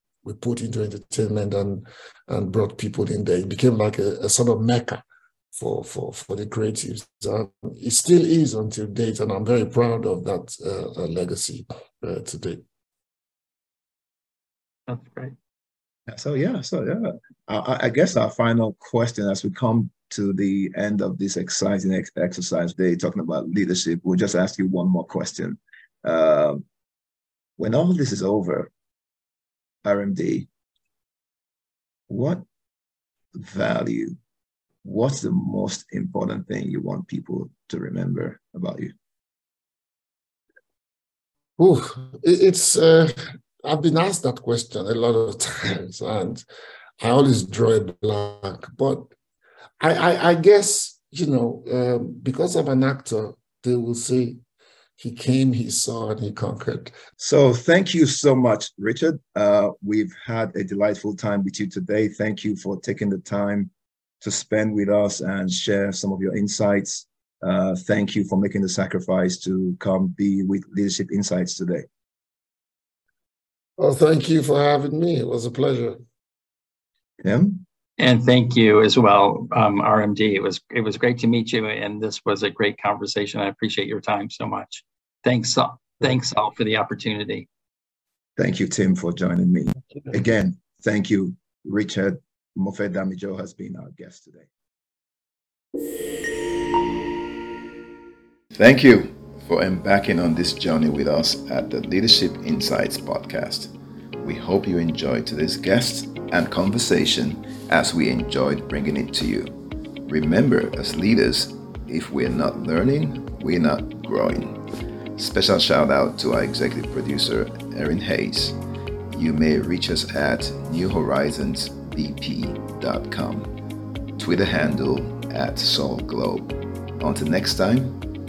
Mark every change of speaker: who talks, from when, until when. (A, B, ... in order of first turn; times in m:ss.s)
0:00.2-0:12.6 A
0:14.9-0:15.3 B
0:16.1-0:26.6 C
0:27.6-0:28.7 C
0:29.8-0:30.5 C
0:32.1-0:32.4 C
0:33.3-0:34.2 C
0:34.8-0:38.9 C
0:41.6-0:46.4 A
0:47.0-0:49.1 A
0:49.8-0:54.4 A
0:55.0-0:57.0 A
0:57.2-1:03.7 C
1:04.2-1:11.9 C
1:13.8-1:16.0 A
1:17.2-1:17.6 C
1:18.0-1:27.5 B
1:28.4-1:34.5 C
1:38.5-1:43.7 C
1:44.2-1:49.5 C
1:50.0-1:54.6 C
1:55.2-1:58.5 C
1:59.1-2:03.5 C
2:04.2-2:08.0 C